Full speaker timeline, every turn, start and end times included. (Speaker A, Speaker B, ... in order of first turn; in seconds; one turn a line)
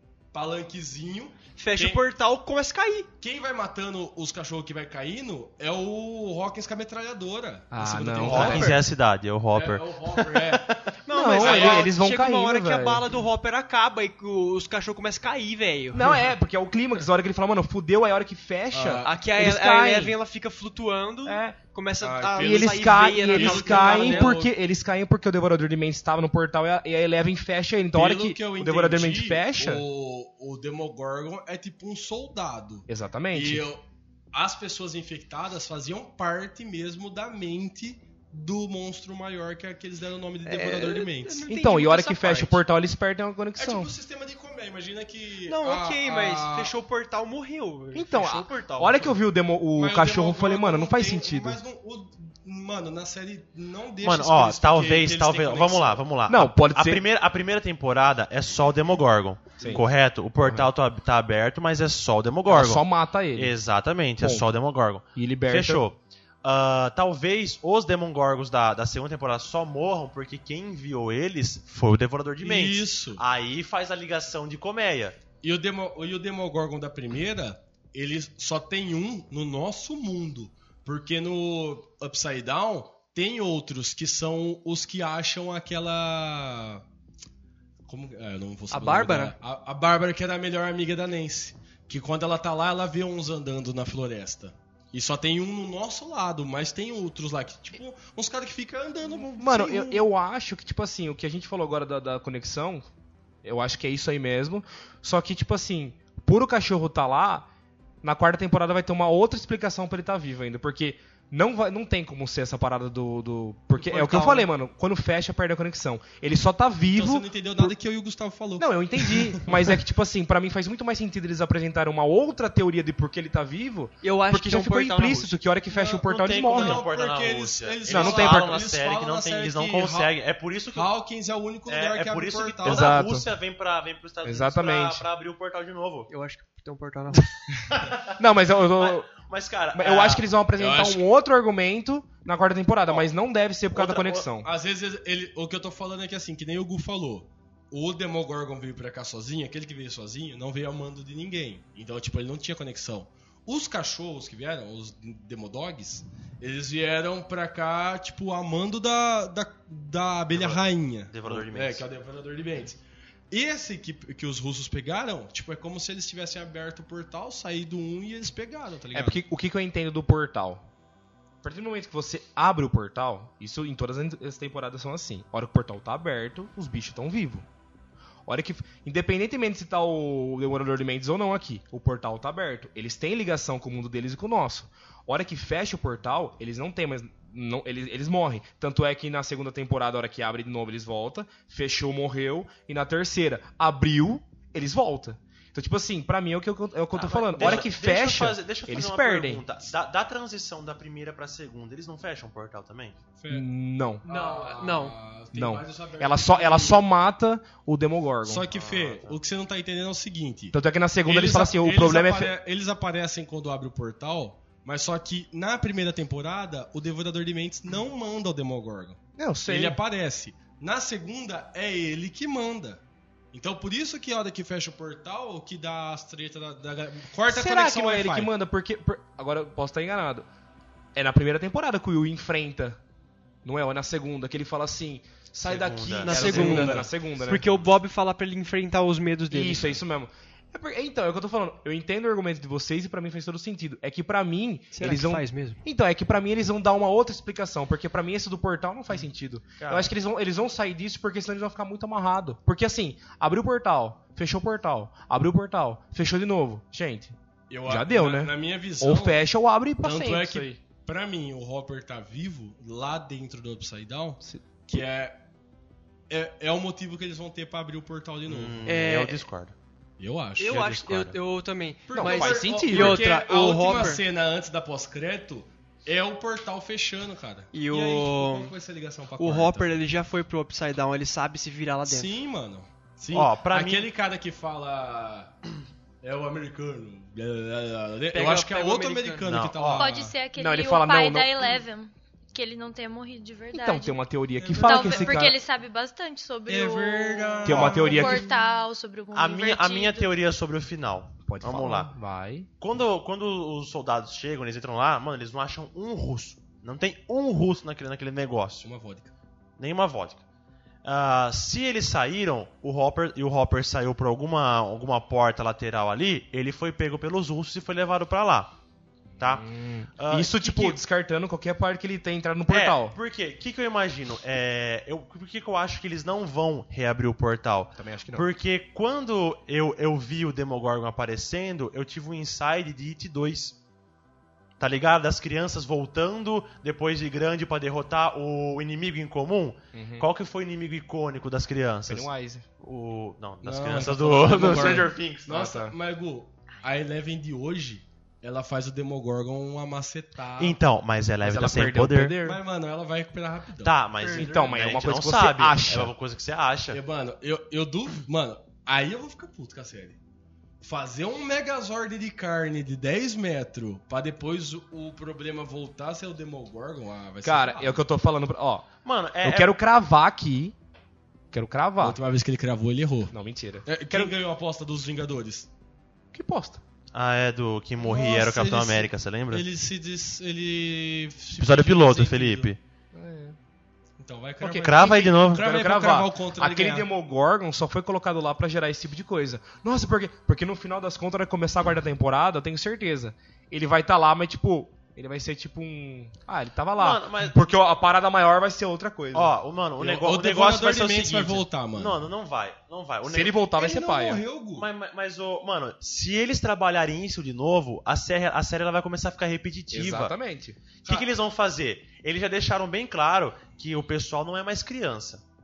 Speaker A: 0.3-2.0
Speaker B: 1.6-3.1
Speaker A: 3.2-8.8
Speaker C: 7.7-8.8
Speaker D: 8.2-10.6
Speaker A: 9.5-11.9
Speaker B: 11.0-16.2
Speaker C: 11.1-13.0
Speaker D: 11.4-11.8
Speaker C: 15.9-20.1
Speaker A: 18.7-19.1
Speaker B: 19.0-24.4
Speaker C: 21.2-21.6
Speaker A: 22.0-24.5
Speaker C: 22.4-29.8
Speaker A: 27.9-41.5
Speaker C: 32.9-33.6
Speaker B: 40.4-42.6
Speaker C: 41.4-43.9
Speaker A: 43.6-46.7
Speaker B: 45.5-49.2
Speaker C: 47.9-51.6
Speaker A: 49.7-56.0
Speaker D: 54.0-75.2
Speaker C: 56.3-57.0
Speaker C: 59.6-59.9
Speaker C: 62.5-63.5
Speaker C: 64.2-64.5
Speaker C: 65.2-65.8
Speaker A: 72.4-73.2
Speaker A: 75.4-86.8
Speaker A: 87.8-100.1
Speaker B: 88.7-89.3
Speaker C: 99.4-102.9
Speaker C: 103.4-107.5
Speaker C: 108.0-117.7
Speaker B: 113.8-114.5
Speaker A: 114.0-114.3
Speaker A: 116.9-119.8
Speaker C: 118.6-126.8
Speaker B: 124.0-125.2
Speaker D: 125.0-125.3
Speaker A: 125.7-130.1
Speaker D: 126.0-130.9
Speaker C: 127.9-128.6
Speaker A: 130.7-133.0
Speaker D: 131.7-136.1
Speaker C: 132.6-133.3
Speaker C: 134.2-135.0
Speaker B: 136.1-137.3
Speaker D: 137.7-138.2
Speaker C: 138.2-139.1
Speaker D: 138.8-140.3
Speaker C: 139.7-144.5
Speaker A: 140.5-141.0
Speaker D: 143.7-144.3
Speaker A: 144.4-169.2
Speaker D: 160.3-161.8
Speaker C: 168.9-170.6
Speaker C: 171.4-177.4
Speaker C: 178.2-199.4
Speaker D: 196.9-202.9
Speaker A: 197.3-197.7
Speaker A: 203.2-203.5
Speaker C: 203.3-204.0
Speaker A: 204.0-206.8
Speaker B: 204.1-204.9
Speaker C: 205.3-208.4
Speaker A: 208.2-222.8
Speaker D: 208.5-209.2
Speaker C: 210.5-212.3
Speaker C: 219.2-219.8
Speaker A: 223.3-228.3
Speaker C: 227.3-230.3
Speaker C: 230.9-232.8
Speaker C: 233.4-237.4
Speaker D: 235.4-236.7
Speaker B: 236.0-239.8
Speaker A: 236.1-236.9
Speaker D: 237.4-237.7
Speaker C: 239.3-260.6
Speaker B: 244.7-245.6
Speaker D: 249.6-249.9
Speaker A: 257.5-259.2
Speaker A: 259.8-265.2
Speaker C: 264.2-264.5
Speaker A: 266.1-268.6
Speaker D: 268.3-269.5
Speaker B: 268.6-269.2
Speaker A: 270.0-270.6
Speaker B: 270.4-274.0
Speaker D: 270.5-271.2
Speaker A: 271.9-279.7
Speaker C: 271.9-273.1
Speaker B: 277.5-278.5
Speaker B: 279.2-282.1
Speaker A: 281.9-285.3
Speaker D: 283.1-283.9
Speaker A: 286.0-290.2
Speaker B: 288.1-289.3
Speaker D: 289.2-289.9
Speaker E: 289.8-300.1
Speaker C: 290.3-291.5
Speaker C: 293.5-295.3
Speaker A: 294.4-295.2
Speaker A: 296.5-298.2
Speaker C: 297.4-298.2
Speaker D: 299.1-301.9
Speaker C: 301.2-302.5
Speaker D: 302.6-308.7
Speaker A: 308.6-309.1
Speaker D: 309.6-310.2
Speaker D: 310.8-318.5
Speaker C: 319.2-322.9
Speaker D: 319.2-320.8
Speaker D: 322.5-333.6
Speaker C: 327.8-328.3
Speaker D: 334.6-342.1
Speaker C: 339.7-340.1
Speaker C: 341.9-342.4
Speaker D: 342.6-345.3
Speaker A: 343.4-350.6
Speaker C: 344.4-345.7
Speaker D: 350.4-352.2
Speaker C: 351.2-352.4
Speaker A: 352.2-354.6
Speaker D: 353.6-356.8
Speaker C: 354.1-355.9
Speaker A: 356.7-360.0
Speaker A: 360.6-367.8
Speaker C: 367.2-368.6
Speaker D: 368.8-369.6
Speaker C: 369.2-370.5
Speaker C: 371.3-372.0
Speaker A: 371.8-373.1
Speaker C: 373.1-374.1
Speaker A: 373.6-375.5
Speaker C: 376.1-376.6
Speaker D: 376.9-379.4
Speaker A: 377.8-382.5
Speaker D: 381.4-382.6
Speaker C: 382.9-383.4
Speaker A: 384.0-386.9
Speaker C: 384.4-399.3
Speaker D: 384.6-385.5
Speaker D: 396.8-397.4
Speaker D: 399.1-403.4
Speaker A: 399.8-402.0
Speaker C: 403.1-404.2
Speaker A: 403.6-404.7
Speaker D: 404.6-410.1
Speaker C: 409.7-410.6
Speaker D: 410.8-415.2